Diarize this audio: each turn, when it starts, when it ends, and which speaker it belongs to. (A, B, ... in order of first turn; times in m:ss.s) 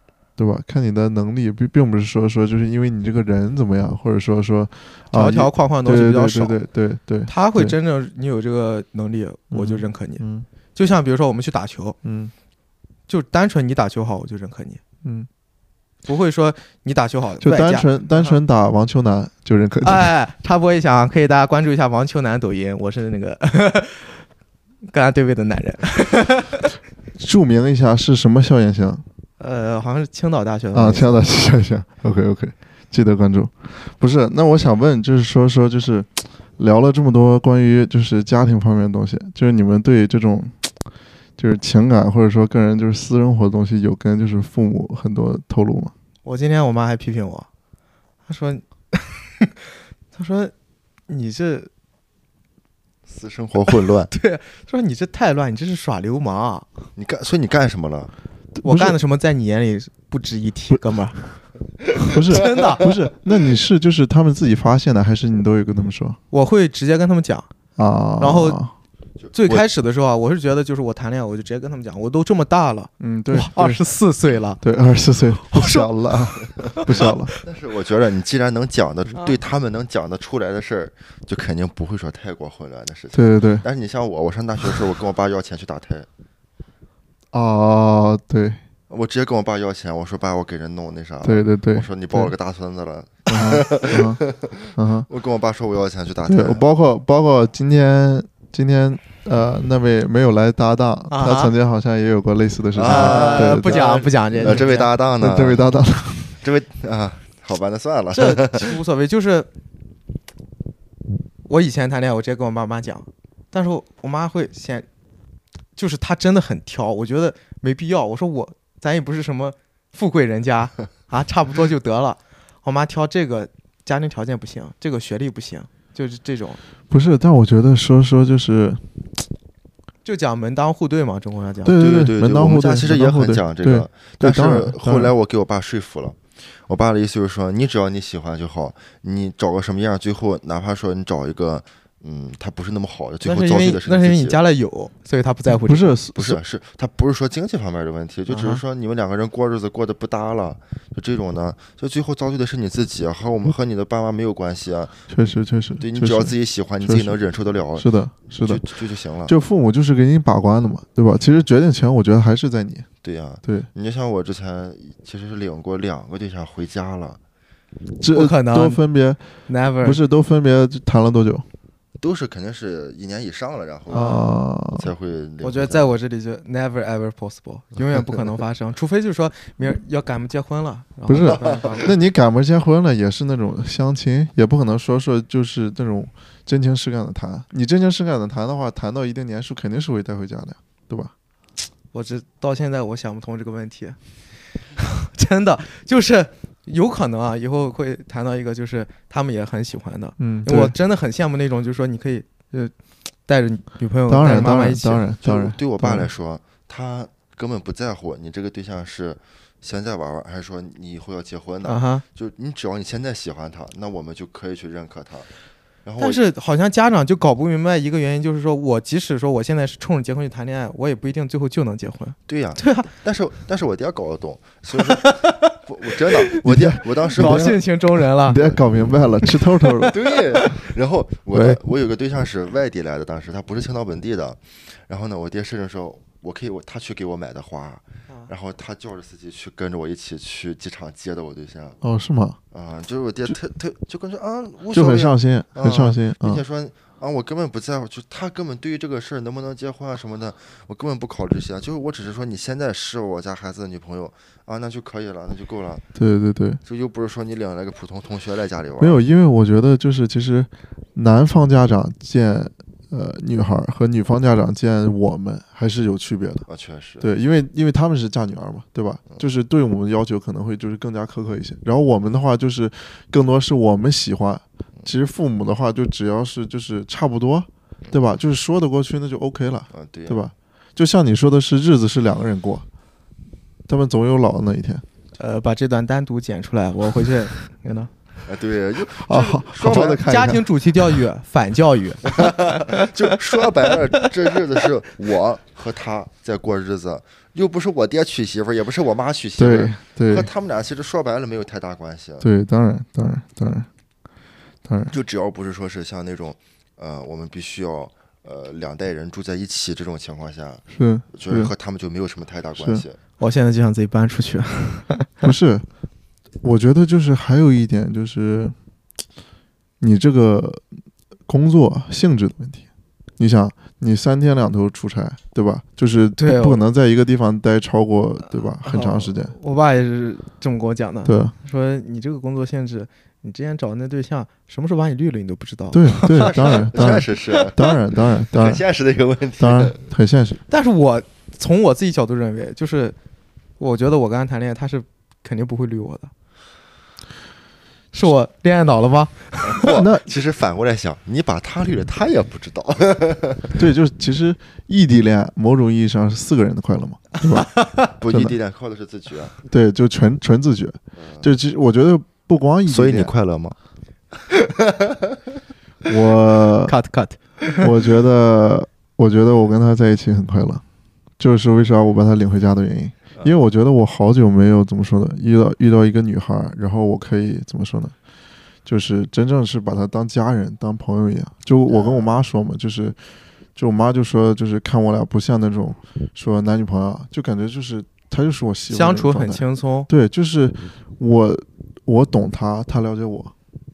0:00.4-0:07.8 A
0:05.1-0:06.6 B
0:07.3-0:12.0 B
0:09.5-0:10.5 A
0:12.0-0:12.3 A
0:13.1-0:14.8 B
0:16.1-0:18.4 B
0:17.4-0:20.1 A
0:19.8-0:24.2 B
0:24.8-0:26.6 B
0:27.2-0:29.0 A
0:29.4-0:31.4 B
0:30.7-0:40.7 A
0:41.4-0:45.9 A
0:46.2-0:47.5 B
0:48.3-0:49.5 B
0:50.1-0:50.5 B
0:51.1-0:51.7 B
0:53.1-0:54.1 C
0:53.7-0:56.7 B
0:57.0-0:58.1 C
0:58.6-0:59.0 A
0:58.6-1:01.2 B
1:02.0-1:02.9 B
1:02.1-1:06.2 A
1:06.3-1:07.5 B
1:07.8-1:08.7 A
1:08.2-1:08.6 B
1:09.2-1:09.6 C
1:09.3-1:14.6 B
1:13.0-1:13.8 A
1:14.6-1:17.3 A
1:15.5-1:15.9 B
1:16.8-1:17.4 B
1:17.4-1:26.1 C
1:23.1-1:23.6 A
1:27.3-1:28.6 A
1:28.9-1:36.6 C
1:31.2-1:32.3 A
1:33.3-1:34.2 A
1:34.8-1:35.1 A
1:36.3-1:44.7 A
1:41.1-1:41.5 B
1:42.8-1:45.7 C
1:42.8-1:44.9 B
1:45.2-1:46.4 A
1:46.4-1:48.8 C
1:48.1-1:49.5 B
1:51.5-1:54.9 B
1:55.8-2:06.6 B
2:06.9-2:08.8 A
2:10.0-2:11.8 B
2:11.6-2:15.1 A
2:11.8-2:24.4 C
2:23.2-2:26.0 B
2:25.5-2:26.4 A
2:26.2-2:35.0 C
2:28.3-2:28.6 B
2:35.1-2:37.2 A
2:35.8-2:39.3 C
2:37.8-2:38.6 A
2:39.3-2:42.9 A
2:43.0-2:47.2 C
2:48.0-2:49.3 A
2:48.1-2:48.8 B
2:49.5-2:50.0 B
2:49.8-2:51.5 A
2:52.0-2:54.2 C
2:53.9-2:54.3 B
2:53.9-2:54.9 A
2:54.7-2:55.9 C
2:55.4-3:01.9 B
3:01.1-3:11.1 A
3:01.4-3:01.7 C
3:11.9-3:14.0 B
3:14.8-3:22.7 B
3:20.2-3:20.8 A
3:23.3-3:25.1 B
3:24.1-3:26.1 A
3:25.2-3:35.3 C
3:31.6-3:32.0 B
3:35.8-3:36.2 C
3:36.0-3:42.9 B
3:42.3-3:47.6 C
3:44.7-3:48.5 B
3:46.4-3:47.6 A
3:48.2-3:49.9 A
3:49.3-3:50.5 B
3:49.9-4:01.8 C
4:01.8-4:02.4 A
4:02.5-4:15.9 C
4:04.7-4:06.4 A
4:16.0-4:16.6 A
4:16.6-4:19.0 C
4:18.8-4:26.5 A
4:26.5-4:27.1 C
4:27.0-4:42.6 A
4:39.7-4:40.3 C
4:43.7-4:44.8 A
4:45.2-4:47.9 B
4:48.3-4:50.0 C
4:49.0-4:50.4 A
4:50.0-4:54.1 B
4:52.1-5:02.3 C
4:59.4-5:00.3 A
5:02.2-5:03.7 A
5:04.6-5:05.0 A
5:04.9-5:13.0 C
5:10.7-5:11.5 A
5:12.6-5:12.8 A
5:13.2-5:15.3 B
5:15.2-5:15.6 A
5:16.4-5:18.5 A
5:19.8-5:20.6 A
5:21.3-5:22.6 A
5:23.2-5:29.4 A
5:26.2-5:26.6 B
5:28.6-5:36.6 B
5:31.0-5:31.3 A
5:35.7-5:38.6 A
5:36.0-5:39.8 C
5:39.4-5:40.4 A
5:40.5-5:43.0 B
5:43.6-5:46.1 B
5:47.9-5:49.7 B
5:49.4-5:53.6 C
5:49.7-5:50.1 A
5:53.5-5:57.5 A
5:57.3-5:57.9 B
5:58.0-5:59.4 C
5:59.5-6:03.1 A
6:00.9-6:01.3 C
6:02.7-6:03.6 C
6:04.3-6:05.2 C
6:05.9-6:06.8 A
6:06.7-6:07.7 B
6:07.6-6:10.6 A
6:11.2-6:17.9 A
6:18.6-6:23.0 A
6:21.7-6:22.2 C
6:23.6-6:33.3 A
6:28.7-6:29.9 B